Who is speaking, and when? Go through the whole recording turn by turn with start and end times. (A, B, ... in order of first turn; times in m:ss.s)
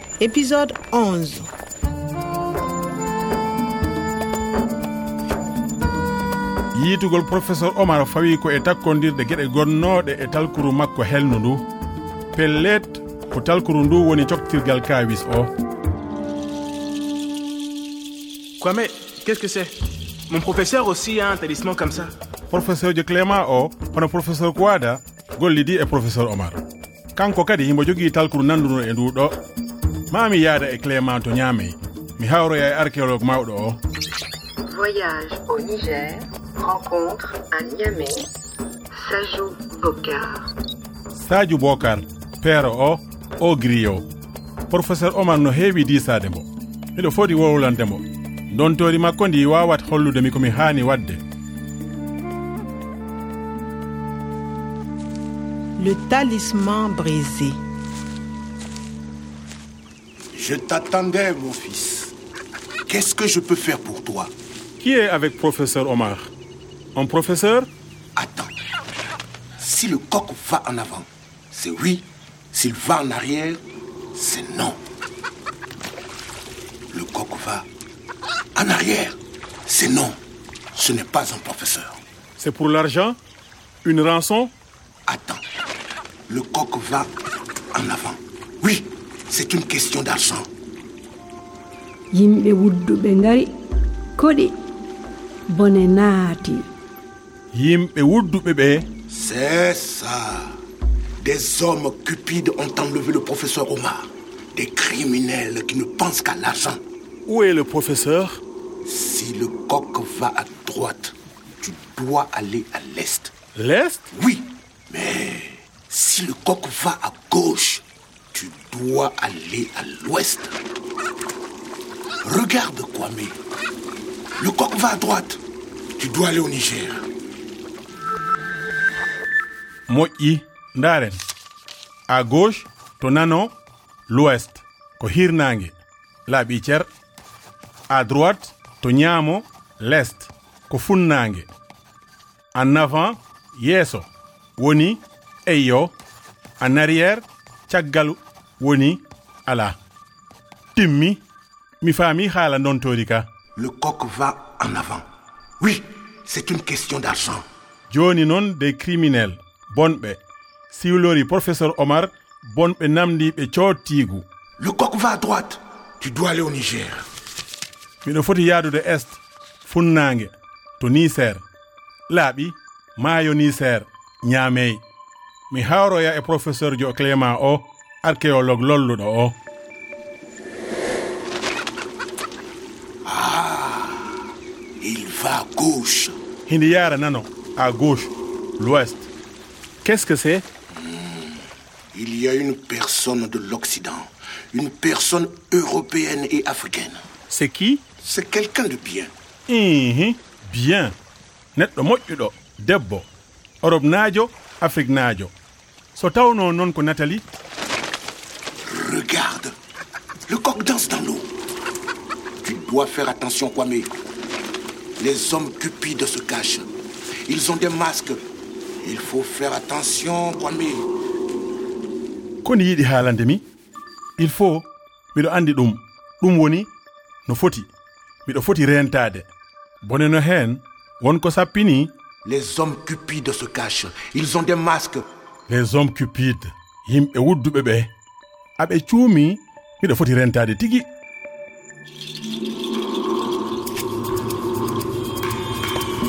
0:00.2-0:01.5 A
0:06.8-0:11.7 B
0:12.3-0:15.5 B
0:18.6-0:19.8 C
0:20.3-0:22.1 C
0:22.5-0:26.6 B
0:27.2-0:29.4 B
0:30.1-0:33.8 B
0:34.7-0:38.3 D
0:39.0-0:40.4 D
0:41.2-0:44.1 B
0:44.7-0:51.2 B
0:55.8-0:57.6 A
1:00.3-1:02.1 E
1:02.9-1:04.3 E
1:04.8-1:06.3 B
1:07.0-1:07.7 B
1:08.2-1:08.5 E
1:09.6-1:13.6 E
1:14.2-1:14.8 E
1:16.9-1:17.7 E
1:18.6-1:20.2 E
1:20.7-1:22.0 E
1:22.4-1:23.2 B
1:23.8-1:24.5 B
1:25.1-1:25.4 E
1:26.3-1:27.1 E
1:27.7-1:30.5 E
1:32.1-1:33.6 F
1:34.2-1:34.6 F
1:35.5-1:36.7 F
1:37.5-1:38.9 B
1:39.1-1:40.6 E
1:41.2-1:46.8 E
1:47.3-1:48.4 B
1:48.8-1:53.3 E
1:53.6-1:54.1 B
1:54.1-1:57.8 E
1:58.3-2:00.6 E
2:02.2-2:03.4 E
2:04.4-2:05.4 E
2:06.0-2:07.0 E
2:09.9-2:11.2 B
2:12.1-2:13.6 B
2:14.1-2:16.9 B
2:17.9-2:21.5 B
2:22.5-2:26.0 B
2:26.6-2:29.8 B
2:30.8-2:31.2 B
2:31.8-2:33.3 B
2:33.6-2:35.0 E
2:35.6-2:37.4 E
2:37.9-2:40.2 B
2:40.7-2:44.2 B
2:44.6-2:47.1 E
2:48.0-2:51.4 B
2:52.1-2:54.8 B
2:55.5-2:59.4 B
3:03.0-3:04.2 E
3:04.8-3:06.2 E
3:06.5-3:09.1 B
3:09.8-3:10.5 B
3:10.8-3:11.4 E
3:11.9-3:17.0 E
3:17.3-3:17.8 B
3:18.0-3:19.1 E
3:19.5-3:21.0 B
3:21.6-3:23.1 B
3:23.6-3:25.3 B
3:26.0-3:27.4 B
3:28.7-3:29.5 E
3:30.3-3:31.3 E
3:32.4-3:33.9 E
3:35.0-3:36.7 E
3:37.3-3:38.3 E
3:38.8-3:40.9 E
3:42.4-3:43.4 B
3:44.2-3:46.7 B
3:47.3-3:47.7 B
3:48.3-3:49.3 B
3:49.8-3:51.9 B
3:52.2-3:55.0 E
3:55.5-3:57.9 B
3:58.6-4:00.9 B